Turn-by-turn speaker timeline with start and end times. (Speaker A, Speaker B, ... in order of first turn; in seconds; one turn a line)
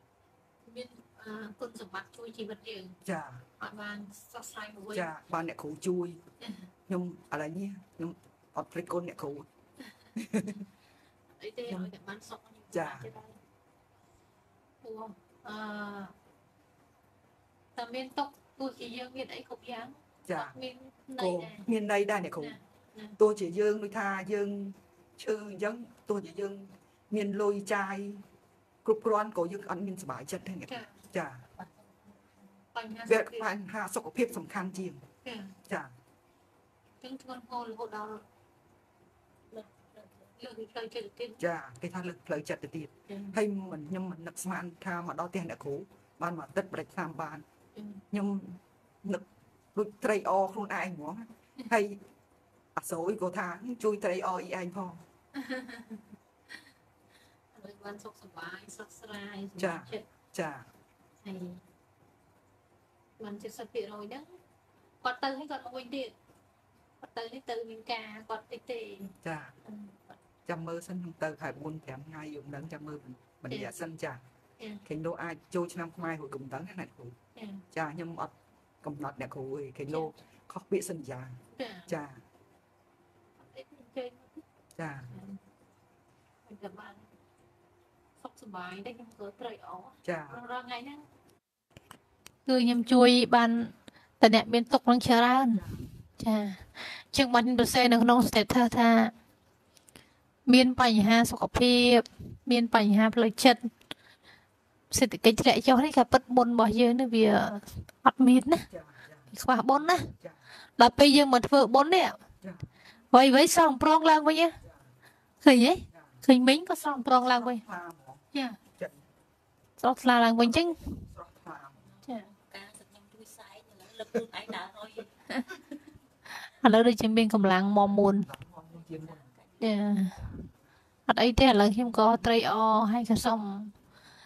Speaker A: 0.7-3.0
Speaker B: 3.0-3.5
Speaker A: 3.6-5.1
Speaker B: 4.9-6.2
Speaker B: 6.9-9.5
Speaker B: 10.2-10.7
Speaker A: 11.4-13.3
Speaker B: 12.7-13.1
Speaker A: 14.8-16.1
Speaker A: 17.8-21.6
Speaker B: 20.2-20.6
Speaker B: 21.2-22.6
Speaker A: 22.4-23.1
Speaker B: 23.2-28.2
Speaker B: 28.8-31.5
Speaker A: 30.7-31.0
Speaker A: 32.7-33.5
Speaker B: 33.0-35.0
Speaker A: 35.2-35.5
Speaker B: 35.7-35.9
Speaker A: 37.0-38.2
Speaker A: 39.5-41.4
Speaker B: 41.4-47.4
Speaker A: 43.1-43.3
Speaker A: 47.7-48.0
Speaker B: 48.1-52.0
Speaker B: 52.7-55.0
Speaker A: 55.3-56.0
Speaker A: 57.5-60.1
Speaker B: 59.6-60.7
Speaker A: 61.2-61.6
Speaker A: 63.2-64.3
Speaker A: 65.0-66.1
Speaker A: 67.0-69.1
Speaker B: 69.2-69.5
Speaker A: 69.7-70.0
Speaker B: 70.5-74.2
Speaker B: 74.8-77.2
Speaker A: 77.3-77.6
Speaker B: 77.7-82.2
Speaker A: 81.5-81.9
Speaker A: 83.5-84.4
Speaker B: 84.8-85.1
Speaker A: 86.5-87.0
Speaker A: 88.2-91.0
Speaker B: 90.0-90.4
Speaker A: 92.5-99.1
Speaker B: 95.5-95.8
Speaker A: 100.5-103.7
Speaker A: 104.9-108.6
Speaker B: 108.7-110.4
Speaker A: 109.3-110.1
Speaker A: 110.8-112.2
Speaker B: 112.4-112.7
Speaker A: 113.1-114.5
Speaker A: 115.4-117.6
Speaker B: 115.9-116.2
Speaker B: 117.2-118.2
Speaker B: 118.8-119.1
Speaker A: 119.8-120.8
Speaker B: 120.4-121.8
Speaker C: 121.9-125.1
Speaker A: 126.6-128.3
Speaker B: 127.8-129.3
Speaker C: 128.9-129.6
Speaker A: 129.6-130.2
Speaker B: 130.1-130.5
Speaker A: 131.1-133.7